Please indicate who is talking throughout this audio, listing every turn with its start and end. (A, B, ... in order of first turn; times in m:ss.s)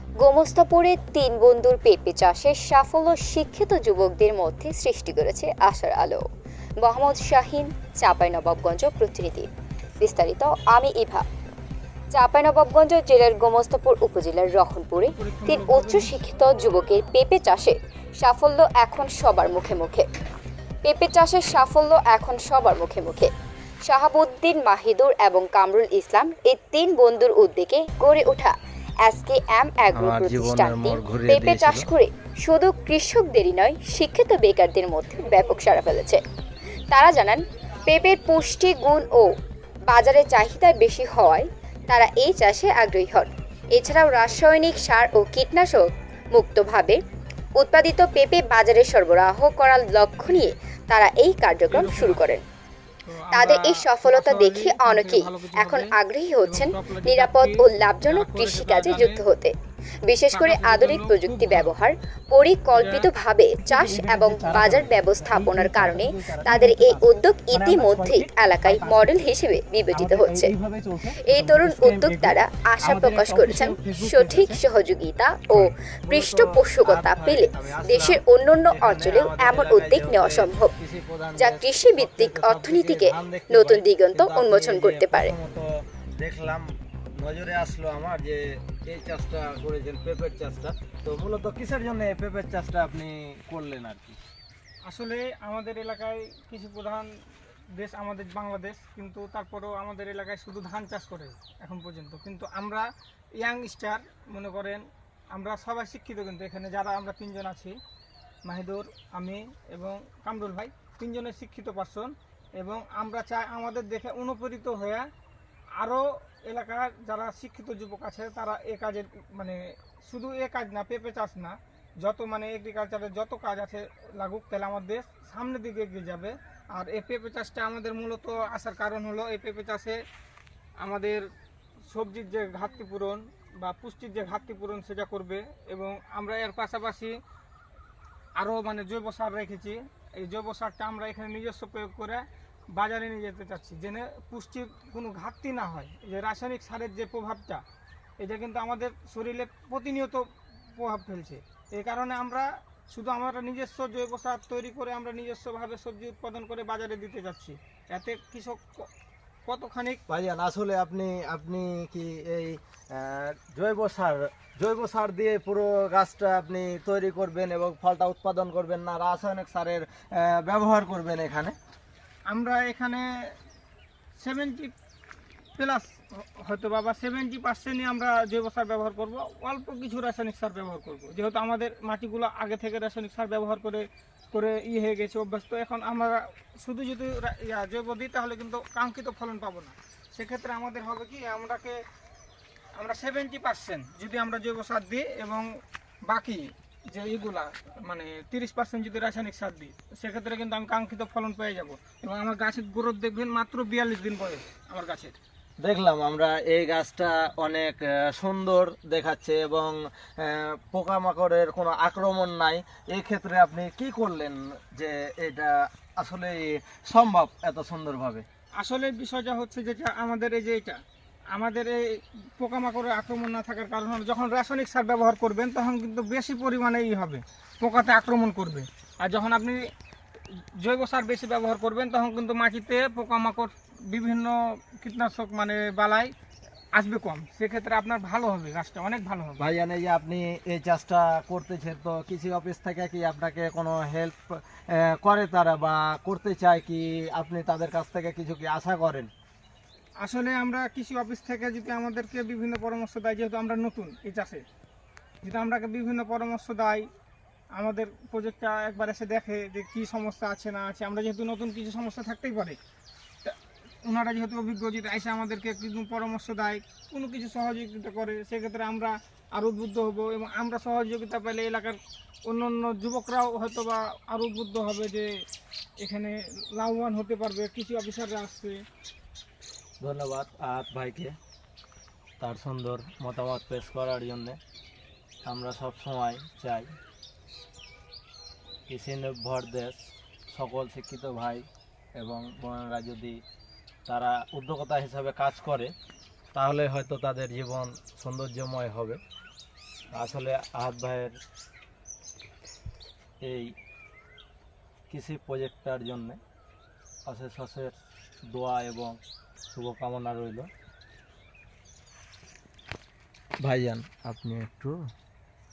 0:00.2-0:06.2 A
0:06.8-0:09.5 A
0:10.0-0:11.2 A
0:12.1-0:20.1 A
0:15.1-0:16.2 B
0:20.8-0:23.3 A
0:23.9-0:36.2 A
0:29.9-0:31.9 C
0:36.9-0:39.3 A
0:39.9-0:47.0 A
0:47.6-0:52.4 A
0:50.2-0:50.5 B
0:51.7-0:52.4 B
0:53.1-0:55.9 B
0:53.3-0:59.5 A
0:56.4-0:59.2 B
1:00.1-1:10.5 A
1:00.3-1:01.7 B
1:02.7-1:03.1 B
1:03.7-1:09.2 C
1:09.9-1:14.6 C
1:11.2-1:20.7 A
1:15.6-1:34.2 C
1:21.4-1:25.3 A
1:34.9-1:37.1 B
1:37.8-1:42.9 B
1:43.4-1:47.8 B
1:48.4-1:55.1 B
1:55.8-2:10.0 B
2:10.8-2:11.2 B
2:11.9-2:17.2 B
2:18.4-2:27.6 B
2:28.2-2:38.9 B
2:39.5-2:40.0 B
2:40.1-2:51.6 C
2:52.3-2:53.1 B
2:54.2-2:54.7 B
2:55.6-3:11.8 B
3:12.8-3:15.5 B
3:16.1-3:25.2 B
3:25.6-3:38.3 C
3:38.6-3:40.8 B
3:41.3-3:49.7 B
3:50.6-3:56.1 B
3:56.8-3:59.5 B
3:59.4-4:09.1 C
4:10.0-4:14.4 B
4:15.2-4:16.9 B
4:17.6-4:22.6 B
4:23.2-4:35.1 B
4:35.8-4:38.6 B
4:39.8-4:41.2 C
4:42.2-4:44.4 C
4:45.3-4:46.7 C
4:48.7-4:49.8 C
4:50.3-4:51.5 C
4:52.0-4:53.2 C
4:53.9-4:55.7 C
4:56.4-4:59.0 C
4:59.9-5:01.1 C
5:03.2-5:03.5 C
5:04.9-5:06.2 C
5:07.1-5:07.8 C
5:08.3-5:09.0 C
5:09.5-5:10.5 C
5:13.4-5:14.8 C